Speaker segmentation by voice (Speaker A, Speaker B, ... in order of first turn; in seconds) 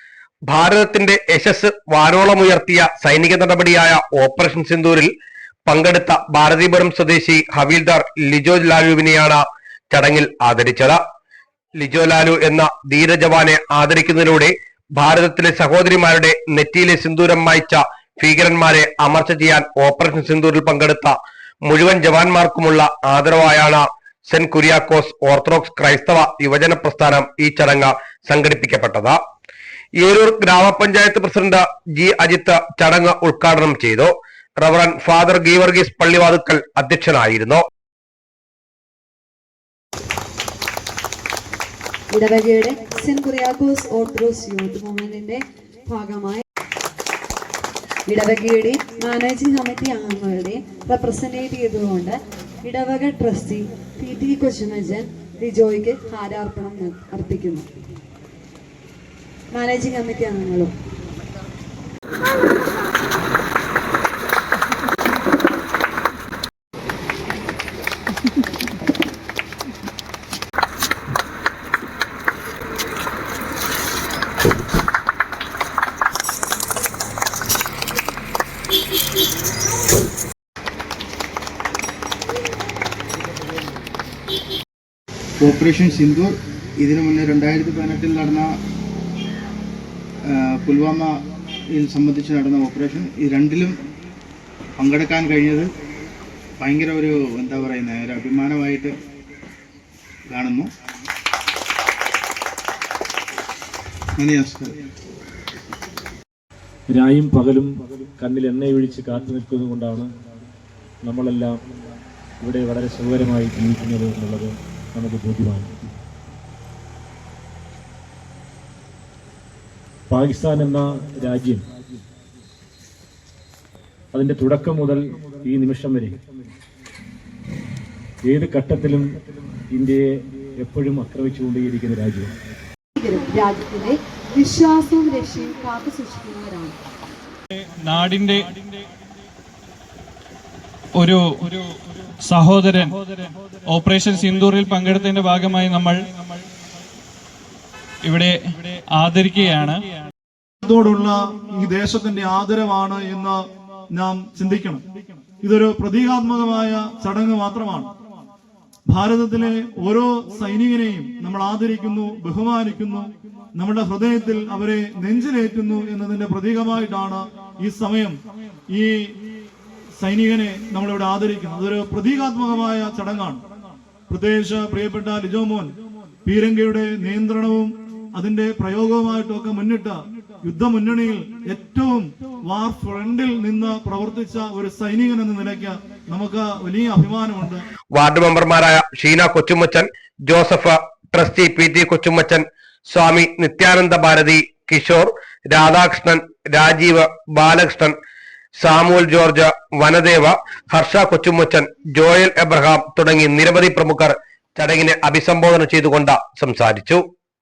Speaker A: 0.5-5.1, 5.7-11.0, 11.8-21.1, 21.6-29.2, 30.0-37.6, 187.9-197.9, 198.6-207.0
Speaker B: 42.1-46.4, 48.1-57.7, 59.5-60.7, 132.9-136.7
Speaker C: 85.4-88.5, 90.3-93.8, 94.8-95.7, 96.6-99.0, 100.3-100.7, 104.2-104.7
Speaker D: 106.9-110.1, 111.0-111.6, 112.4-115.8, 120.1-121.6, 124.1-126.2, 128.2-129.1, 129.7-132.3
Speaker E: 137.8-138.5, 141.0-141.6, 142.2-142.9, 143.7-146.4, 148.1-149.8
Speaker F: 150.6-154.8, 155.4-157.9, 158.9-168.2, 168.7-169.1, 169.9-173.4, 174.1-175.7, 176.2-187.6